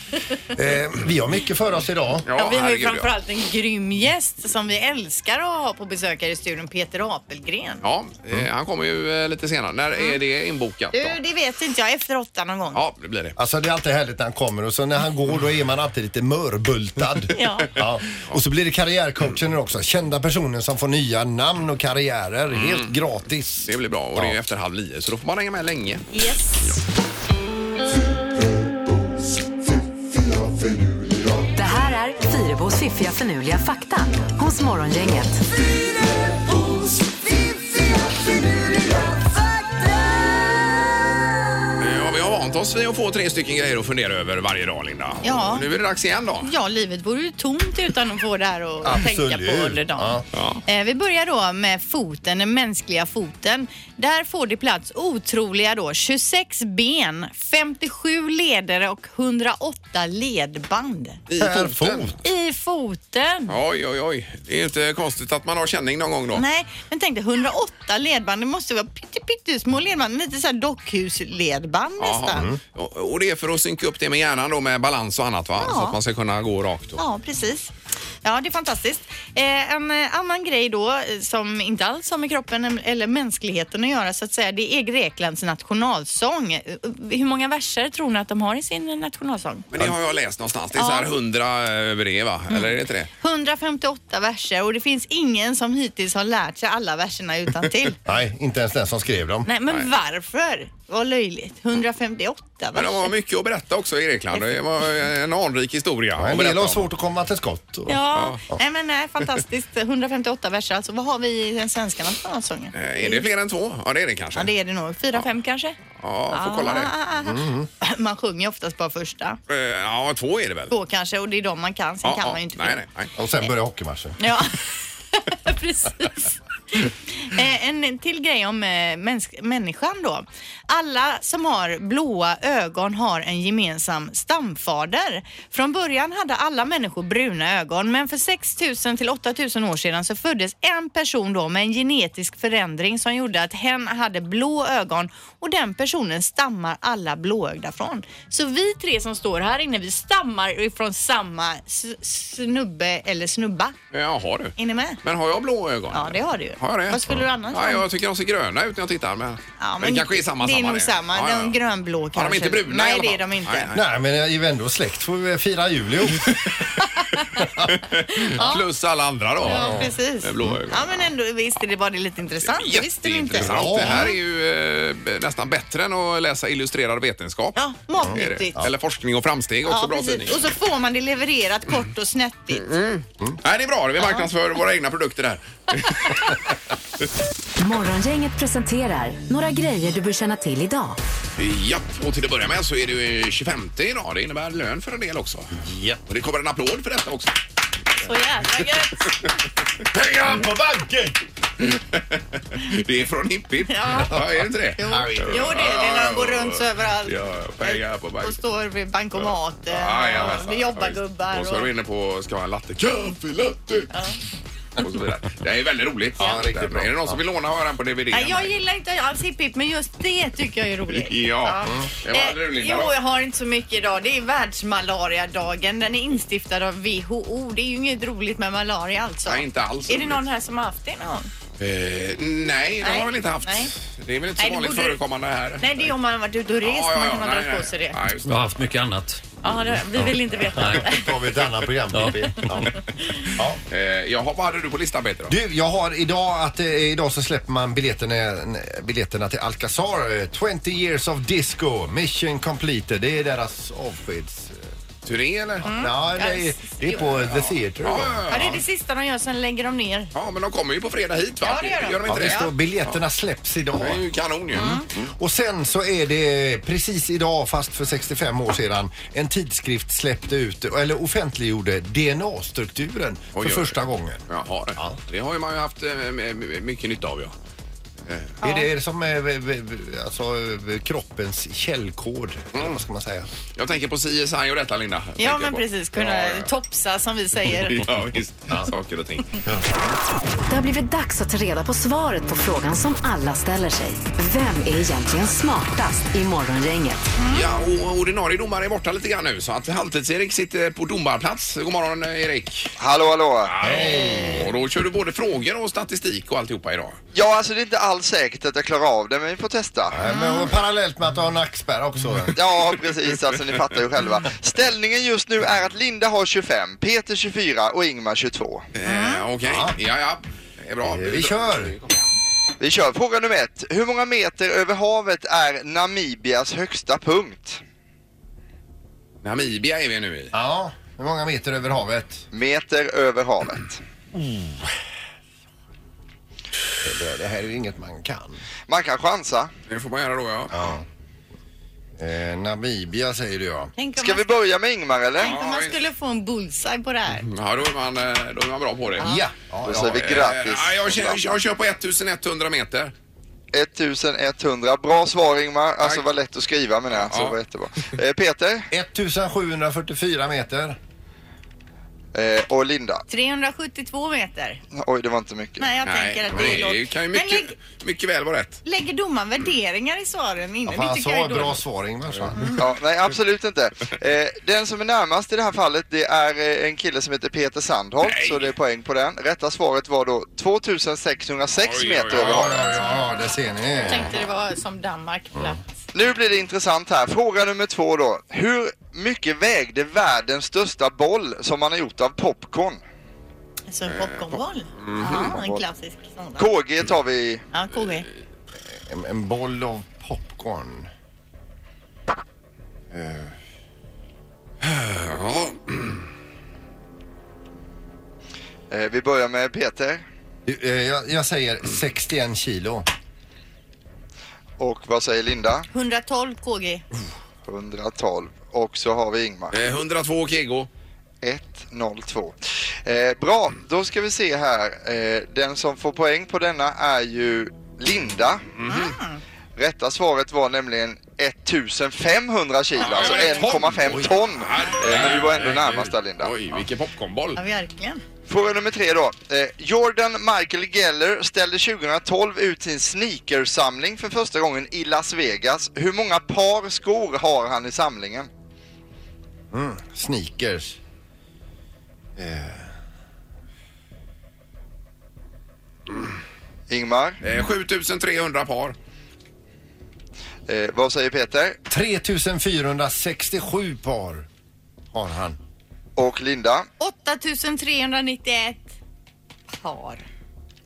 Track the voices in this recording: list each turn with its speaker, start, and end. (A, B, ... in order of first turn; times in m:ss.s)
0:00.5-0:02.3 A
0:02.2-0:03.1 B
0:02.4-0:07.8 C
0:07.8-0:11.2 B
0:10.9-0:12.8 C
0:12.7-0:13.4 B
0:13.4-0:24.4 A
0:17.4-0:17.7 C
0:17.8-0:18.4 B
0:22.5-0:23.0 B
0:23.6-0:26.3 B
0:26.1-0:26.6 C
0:31.5-0:35.4 D
0:41.8-0:46.5 B
0:45.2-0:45.7 C
0:46.4-1:01.2 C
0:48.8-0:50.3 A
0:50.3-0:50.6 B
1:01.3-1:02.1 B
1:01.4-1:02.2 A
1:02.2-1:03.5 C
1:03.5-1:06.4 B
1:06.3-1:12.5 C
1:12.0-1:17.0 B
1:12.3-1:12.6 A
1:15.6-1:16.0 C
1:17.0-1:17.7 C
1:18.2-1:29.7 C
1:29.7-1:33.1 B
1:30.8-1:31.1 C
1:32.5-1:38.0 C
1:38.0-1:39.5 A
1:39.5-1:43.1 C
1:42.8-1:46.9 B
1:46.2-1:48.0 A
1:47.9-1:53.2 C
1:48.1-1:48.4 B
1:52.7-1:54.5 B
1:54.4-1:55.8 C
1:56.0-1:56.9 B
1:56.3-1:59.4 C
1:57.2-1:57.7 A
1:59.5-2:00.7 B
2:00.7-2:02.8 C
2:02.0-2:03.1 B
2:03.2-2:04.2 A
2:04.2-2:33.8 C
2:33.9-2:41.6 B
2:34.6-2:35.0 C
2:35.9-2:37.8 C
2:39.6-2:43.7 C
2:42.2-2:43.8 B
2:43.7-2:46.4 A
2:46.3-2:46.6 B
2:46.8-2:47.3 C
2:47.7-2:51.0 B
2:48.1-2:48.7 C
2:49.4-2:49.9 A
2:49.4-2:54.2 C
2:52.4-3:00.4 B
2:53.4-2:54.1 A
2:57.6-2:58.6 C
2:58.0-2:58.7 A
2:59.7-3:02.7 C
3:02.6-3:06.4 B
3:04.0-3:04.3 C
3:07.6-3:11.0 D
3:11.4-3:17.4 B
3:15.6-3:16.0 A
3:18.0-3:19.2 C
3:19.9-3:21.2 A
3:21.6-3:28.4 B
3:23.7-3:24.2 C
3:24.8-3:31.7 C
3:24.9-3:25.6 A
3:29.7-3:33.9 B
3:33.9-3:34.2 C
3:34.8-3:38.5 B
3:36.2-3:37.2 A
3:38.1-3:51.3 C
3:40.9-3:43.0 B
3:49.3-3:50.2 B
3:51.6-3:55.8 B
3:52.8-3:53.7 C
3:54.4-3:55.0 C
3:55.6-3:58.0 C
3:56.6-3:58.7 B
3:58.2-3:59.3 E
3:59.4-4:01.1 C
4:00.0-4:02.7 A
4:00.6-4:00.9 E
4:01.9-4:02.5 E
4:03.3-4:05.4 B
4:05.3-4:14.7 A
4:15.0-4:15.8 B
4:15.6-4:18.6 A
4:15.6-4:17.1 C
4:17.4-4:18.6 B
4:18.3-4:20.1 C
4:20.2-4:23.0 B
4:21.4-4:22.5 C
4:22.1-4:24.0 A
4:23.8-4:25.1 B
4:24.6-4:24.9 C
4:24.7-4:34.2 A
4:33.4-4:33.8 B
4:34.3-4:37.3 B
4:38.4-4:38.7 C
4:38.4-4:43.3 A
4:42.5-4:42.8 B
4:43.6-4:46.5 B
4:45.2-4:47.9 C
4:47.5-4:49.4 B
4:49.4-4:49.8 A
4:50.5-4:57.1 D
4:57.2-4:57.4 C
4:57.3-5:02.7 B
5:02.8-5:03.5 F
5:03.4-5:07.0 B
5:03.6-5:04.6 A
5:07.1-5:10.0 F
5:09.9-5:12.4 A
5:10.1-5:10.5 C
5:12.4-5:18.7 F
5:18.8-5:22.1 B
5:18.8-5:19.2 C
5:19.4-5:19.8 A
5:20.8-5:21.8 A
5:22.6-5:27.6 F
5:29.2-5:30.3 B
5:30.3-5:32.2 A
5:32.3-5:33.8 F
5:34.1-5:34.7 A
5:36.8-5:38.4 A
5:38.7-5:39.5 F
5:39.7-5:40.6 B
5:40.5-5:40.8 A
5:42.0-5:43.7 A
5:43.8-5:44.4 C
5:44.0-5:45.3 F
5:45.2-5:47.3 C
5:45.2-5:45.8 B
5:47.2-5:49.2 B
5:49.0-5:50.2 A
5:49.6-5:51.3 F
5:49.8-5:52.9 B
5:53.5-5:58.7 F
5:56.9-5:57.4 B
5:58.7-6:00.8 A
6:02.1-6:03.0 F
6:03.1-6:04.6 C
6:04.7-6:05.7 F
6:05.6-6:07.5 C
6:05.8-6:08.6 B
6:08.6-6:11.6 C
6:10.7-6:12.6 A
6:12.6-6:22.7 F
6:18.0-6:18.5 B
6:21.5-6:22.7 B
6:22.1-6:24.1 A
6:23.9-6:25.6 C
6:25.9-6:32.8 F
6:33.7-6:36.5 C
6:33.9-6:35.4 B
6:35.0-6:35.6 F
6:36.4-6:37.4 F
6:37.5-6:38.1 C
6:38.7-6:40.9 A
6:42.9-6:43.3 A
6:44.6-6:46.0 B
6:48.7-6:50.0 F
6:50.5-6:52.9 A
6:54.6-6:55.7 F
6:55.7-6:56.8 C
6:57.5-6:59.6 F
6:59.5-7:00.7 B
7:01.2-7:08.4 F
7:08.6-7:09.0 B
7:08.7-7:09.2 C
7:09.6-7:16.3 F
7:12.8-7:17.4 B
7:17.4-7:18.0 C
7:18.3-7:28.3 F
7:29.5-7:30.8 A
7:32.2-7:32.8 A
7:36.7-7:37.2 F
7:37.2-7:38.8 B
7:40.5-7:41.6 F
7:41.7-7:44.3 A
7:44.9-7:45.4 A
7:46.0-7:46.7 F
7:46.8-7:48.7 C
7:49.6-7:50.0 C